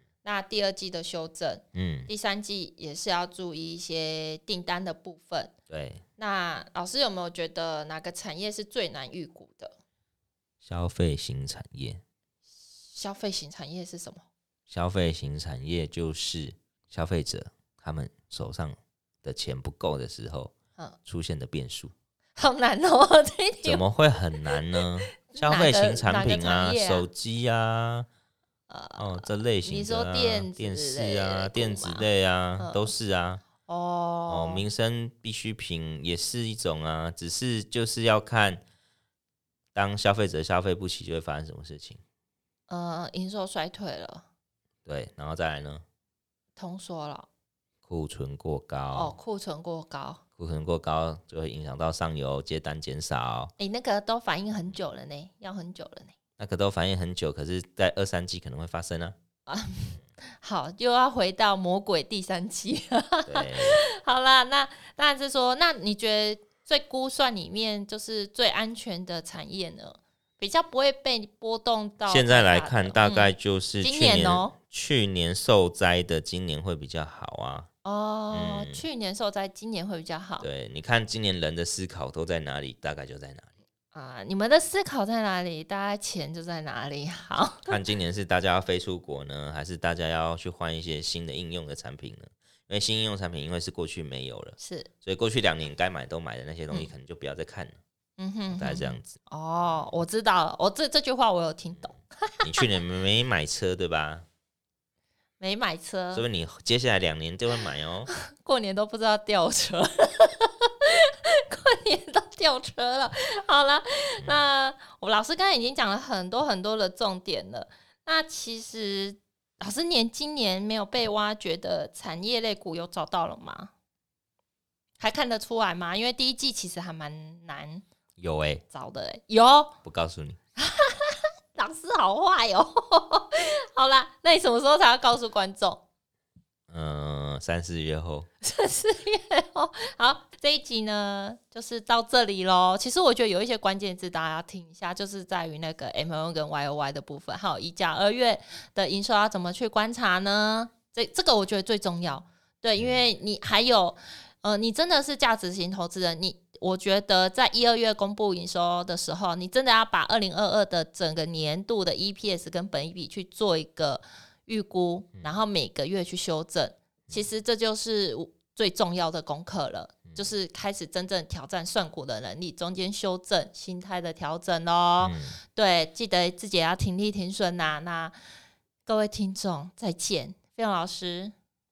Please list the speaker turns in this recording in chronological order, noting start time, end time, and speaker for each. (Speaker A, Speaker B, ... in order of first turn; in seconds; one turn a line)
Speaker A: 0.2-5.5
Speaker B: 1.7-2.1
Speaker B: 5.7-6.0
Speaker A: 6.2-9.8
Speaker B: 10.6-12.0
Speaker A: 12.9-14.2
Speaker B: 14.7-20.5
Speaker B: 21.1-21.9
Speaker A: 22.4-23.8
Speaker B: 23.6-28.1
Speaker A: 24.7-27.1
Speaker A: 28.7-32.1
Speaker B: 29.0-33.4
Speaker A: 32.6-32.9
Speaker A: 33.6-34.6
Speaker B: 34.3-38.6
Speaker B: 39.7-42.0
Speaker A: 42.7-44.2
Speaker B: 44.9-45.8
Speaker A: 46.5-47.3
Speaker B: 47.9-49.1
Speaker A: 48.9-50.2
Speaker B: 50.4-53.5
Speaker A: 53.6-56.1
Speaker B: 56.4-59.1
Speaker A: 59.5-74.5
Speaker B: 63.2-63.8
Speaker B: 72.1-77.7
Speaker A: 77.8-80.5
Speaker B: 78.3-78.8
Speaker B: 80.4-83.5
Speaker A: 83.9-87.8
Speaker B: 87.7-97.8
Speaker A: 94.6-94.9
Speaker A: 98.2-102.6
Speaker B: 98.5-99.2
Speaker B: 102.4-104.2
Speaker A: 105.4-106.2
Speaker B: 106.1-108.1
Speaker A: 108.1-123.7
Speaker A: 125.0-127.8
Speaker B: 128.2-128.6
Speaker A: 128.7-129.7
Speaker B: 129.8-130.4
Speaker A: 130.6-135.8
Speaker B: 136.7-138.3
Speaker A: 138.4-178.1
Speaker B: 175.0-175.4
Speaker A: 178.8-181.3